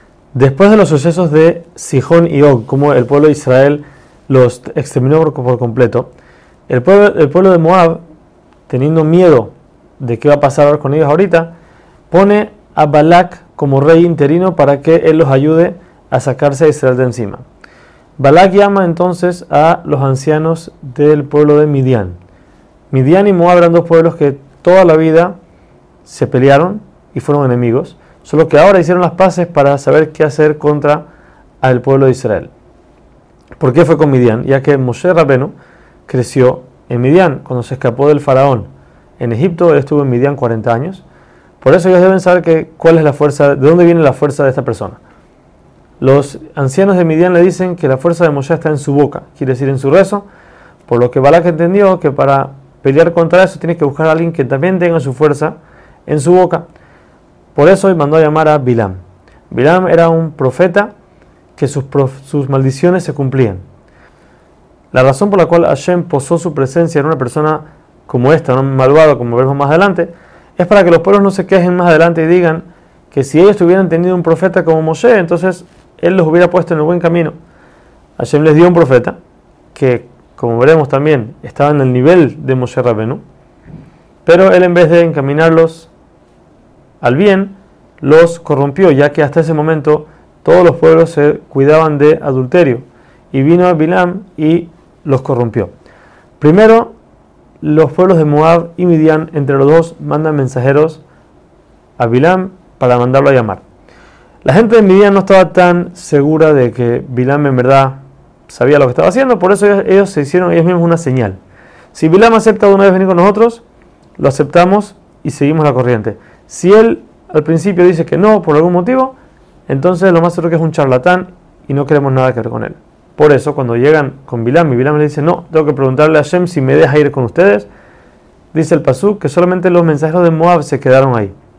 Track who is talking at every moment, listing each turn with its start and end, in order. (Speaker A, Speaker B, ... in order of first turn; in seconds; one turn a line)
Speaker A: 0.3-6.1
Speaker A: 6.7-8.0
Speaker A: 8.7-11.5
Speaker A: 12.1-17.4
Speaker A: 18.2-22.2
Speaker A: 22.9-25.3
Speaker A: 26.0-31.0
Speaker A: 31.6-32.5
Speaker A: 33.6-35.5
Speaker A: 36.1-38.7
Speaker A: 39.2-41.0
Speaker A: 41.6-45.0
Speaker A: 46.0-50.2
Speaker A: 50.9-55.5
Speaker A: 56.1-56.6
Speaker A: 57.5-59.0
Speaker A: 59.5-60.9
Speaker A: 61.5-63.6
Speaker A: 64.9-77.3
Speaker A: 78.2-79.2
Speaker A: 79.7-83.2
Speaker A: 84.2-85.9
Speaker A: 87.0-95.7
Speaker A: 96.4-96.9
Speaker A: 97.6-101.0
Speaker A: 102.0-103.6
Speaker A: 104.4-111.4
Speaker A: 111.9-113.6
Speaker A: 114.2-119.2
Speaker A: 119.7-127.7
Speaker A: 128.5-131.3